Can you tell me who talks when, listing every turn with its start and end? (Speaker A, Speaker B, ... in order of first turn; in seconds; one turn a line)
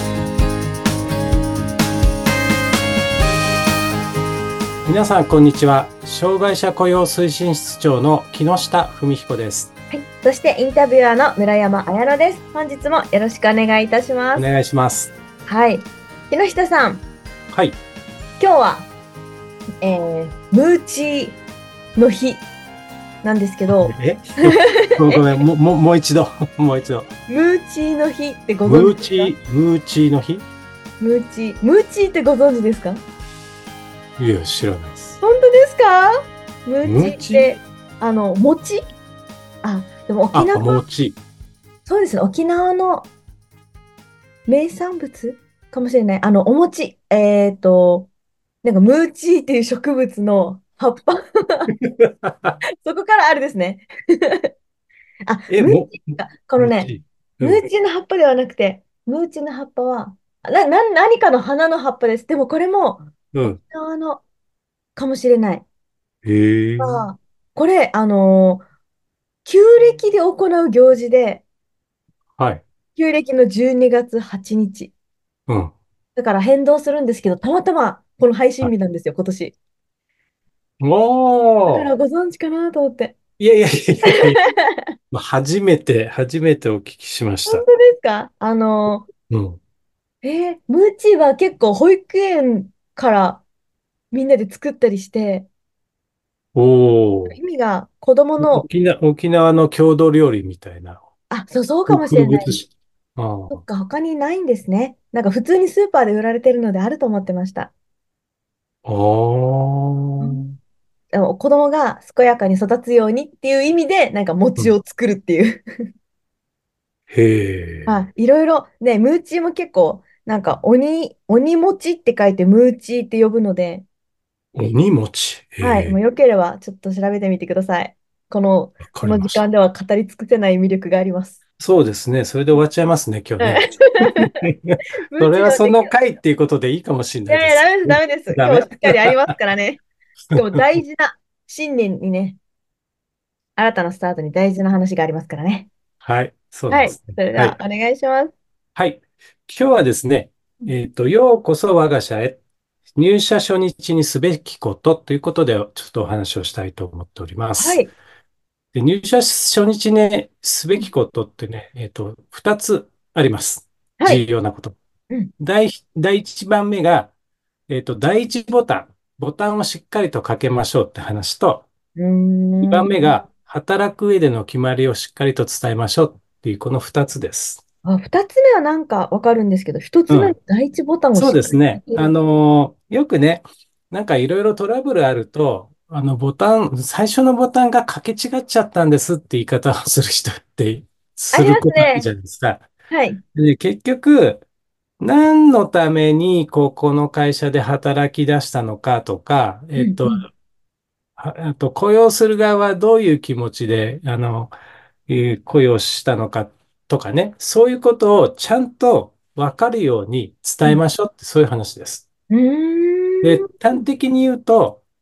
Speaker A: 4.8-9.7
Speaker B: 9.9-14.5
Speaker A: 14.3-15.1
Speaker B: 15.4-17.0
Speaker A: 17.5-17.8
Speaker B: 18.4-18.9
Speaker B: 19.8-21.4
Speaker B: 21.9-22.4
Speaker B: 23.2-25.2
Speaker A: 23.7-27.1
Speaker B: 27.3-29.3
Speaker A: 28.6-30.4
Speaker B: 31.0-33.0
Speaker A: 34.2-35.2
Speaker B: 35.2-36.1
Speaker B: 36.6-38.9
Speaker A: 36.8-37.5
Speaker B: 39.6-40.8
Speaker A: 40.3-41.2
Speaker B: 41.9-43.1
Speaker B: 44.5-48.1
Speaker B: 48.6-51.7
Speaker A: 51.8-52.5
Speaker B: 52.8-54.5
Speaker B: 55.3-56.9
Speaker A: 55.5-57.6
Speaker B: 57.4-64.2
Speaker A: 63.3-63.6
Speaker B: 65.0-65.6
Speaker A: 66.2-67.0
Speaker B: 66.8-68.6
Speaker B: 69.4-71.4
Speaker A: 72.4-72.6
Speaker B: 73.0-74.9
Speaker A: 75.5-75.7
Speaker B: 76.2-79.5
Speaker A: 80.8-81.9
Speaker B: 81.7-83.2
Speaker A: 83.4-84.4
Speaker B: 84.1-84.8
Speaker A: 85.1-87.6
Speaker B: 87.5-89.1
Speaker A: 89.3-89.6
Speaker B: 90.2-93.4
Speaker B: 94.1-95.5
Speaker A: 96.5-97.4
Speaker B: 97.3-98.6
Speaker A: 98.4-101.0
Speaker B: 101.3-102.6
Speaker A: 101.9-103.6
Speaker B: 103.5-107.7
Speaker A: 108.8-110.5
Speaker B: 111.1-115.7
Speaker A: 117.1-118.0
Speaker B: 117.9-123.8
Speaker A: 124.5-126.0
Speaker B: 125.6-131.4
Speaker A: 128.9-129.4
Speaker A: 131.6-139.3
Speaker B: 133.4-134.4
Speaker B: 135.1-135.9
Speaker B: 137.3-139.8
Speaker A: 140.2-140.8
Speaker B: 140.3-142.4
Speaker B: 143.6-145.7
Speaker A: 146.0-147.6
Speaker B: 146.7-148.3
Speaker A: 148.8-152.4
Speaker A: 152.9-157.8
Speaker B: 157.6-157.9
Speaker A: 158.7-164.8
Speaker A: 165.4-167.1
Speaker A: 167.7-171.7
Speaker B: 171.9-173.1
Speaker A: 172.6-177.6
Speaker B: 177.8-182.1
Speaker A: 180.1-180.3
Speaker A: 181.1-192.7
Speaker B: 191.3-192.1
Speaker B: 192.9-193.2
Speaker A: 193.3-194.4
Speaker A: 195.0-200.3
Speaker B: 199.8-200.2
Speaker A: 201.2-204.5
Speaker A: 205.1-212.1
Speaker B: 212.3-213.8
Speaker A: 213.2-214.8